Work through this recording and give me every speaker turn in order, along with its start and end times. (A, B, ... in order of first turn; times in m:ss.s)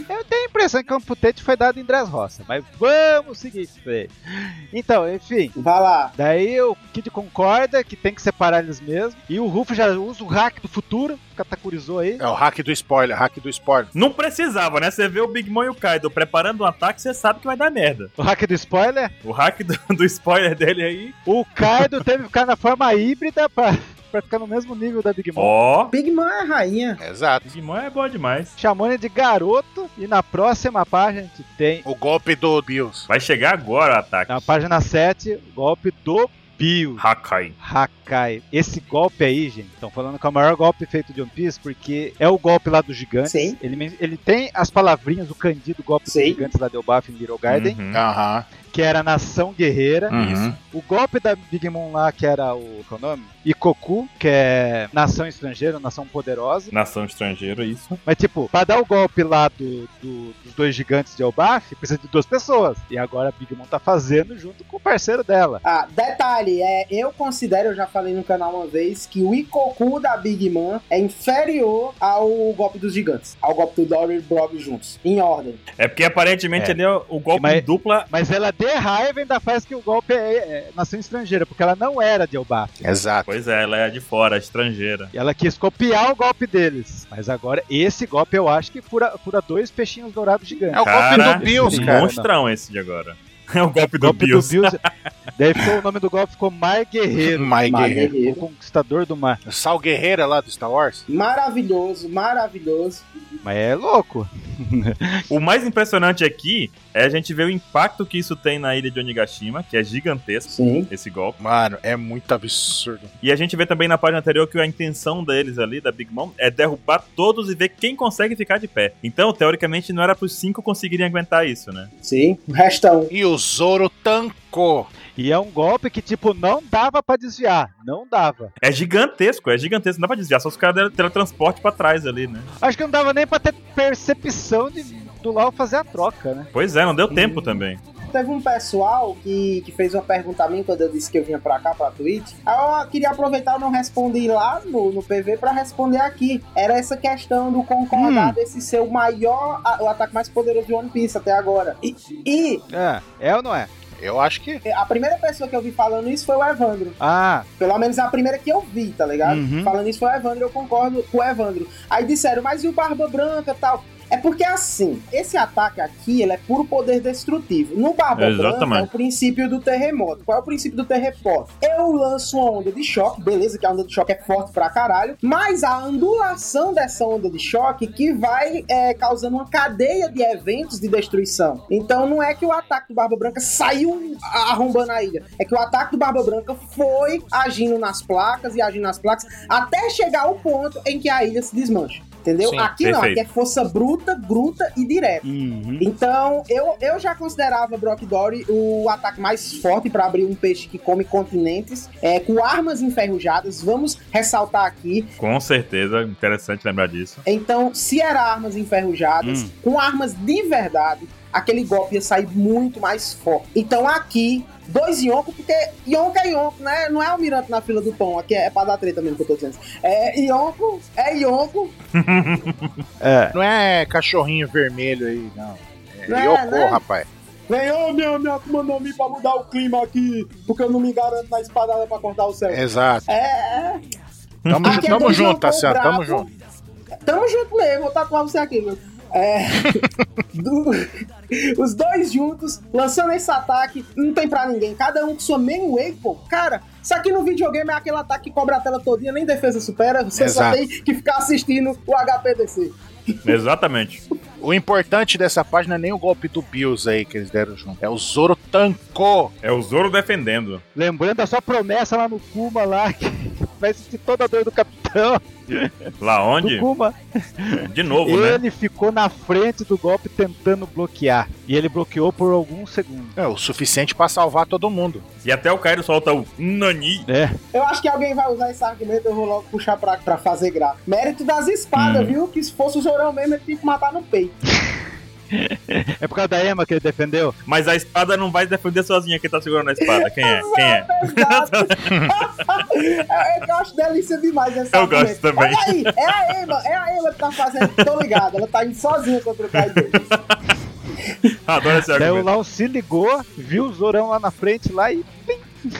0:00.1-0:05.6 A
0:05.6-0:06.1 B
0:06.2-0:12.2 A
0:12.2-0:13.9 C
0:14.0-0:18.1 D
0:18.2-0:19.1 A
0:19.2-0:21.2 D
0:21.3-0:25.5 A
0:25.4-0:25.9 D
0:25.9-0:27.0 B
0:27.0-0:27.5 C
0:27.5-0:28.6 D
0:28.6-0:31.8 A
0:31.8-0:33.1 C
0:33.1-0:34.5 D
0:34.3-0:37.0 A
0:37.0-0:37.5 D
0:37.6-0:47.8 A
0:43.3-0:43.6 B
0:46.1-0:46.5 B
0:47.5-0:48.0 D
0:47.9-0:48.5 C
0:48.7-0:50.1 A
0:50.1-0:50.5 D
0:50.1-0:50.6 C
0:50.7-0:56.7 A
0:56.7-0:58.0 D
0:58.0-1:05.6 A
1:05.6-1:15.6 B
1:15.8-1:18.1 D
1:17.3-1:22.7 A
1:22.8-1:23.3 C
1:23.3-1:25.1 D
1:25.1-1:32.3 A
1:30.7-1:32.1 C
1:30.8-1:34.7 D
1:33.9-1:34.8 A
1:35.4-1:37.5 A
1:37.2-1:38.1 C
1:37.7-1:38.4 B
1:38.2-1:39.4 A
1:39.5-1:41.0 C
1:41.1-1:43.0 B
1:43.4-1:45.3 A
1:45.3-1:51.4 D
1:50.5-1:50.9 B
1:51.4-1:53.1 C
1:53.2-2:01.9 D
2:02.0-2:03.1 B
2:03.1-2:04.9 C
2:05.2-2:08.5 A
2:08.6-2:12.5 D
2:12.6-2:16.5 A
2:16.5-2:17.8 D
2:17.1-2:17.6 A
2:18.1-2:32.6 B
2:27.9-2:28.4 A
2:32.7-2:33.7 A
2:34.0-2:34.6 C
2:34.6-2:37.0 B
2:37.0-2:37.5 A
2:37.6-3:15.2 B
2:39.2-2:39.7 A
2:48.2-2:48.9 D
3:12.4-3:12.7 C
3:12.8-3:13.2 D
3:15.2-3:15.9 A
3:15.8-3:25.1 B
3:25.2-3:27.2 D
3:27.3-3:41.8 B
3:29.2-3:29.5 A
3:42.0-3:42.7 D
3:43.0-3:43.4 A
3:43.3-3:47.1 C
3:46.1-3:46.8 B
3:47.5-3:53.8 B
3:52.5-3:53.1 C
3:54.4-3:54.9 D
3:54.5-3:56.3 C
3:54.6-3:56.3 B
3:57.0-4:13.3 B
4:10.1-4:10.6 C
4:13.2-4:14.0 D
4:14.4-4:19.3 C
4:19.4-4:20.6 D
4:20.8-4:33.2 A
4:26.0-4:26.7 D
4:27.7-4:28.4 D
4:33.2-4:35.0 C
4:35.2-4:37.1 D
4:37.1-4:37.4 A
4:37.5-4:44.4 B
4:41.8-4:42.2 D
4:45.3-4:47.4 A
4:47.5-4:51.8 D
4:50.0-5:00.1 B
4:54.7-4:56.6 D
4:57.6-4:58.2 D
4:59.5-5:00.4 D
5:01.3-5:02.3 D
5:01.9-5:05.4 A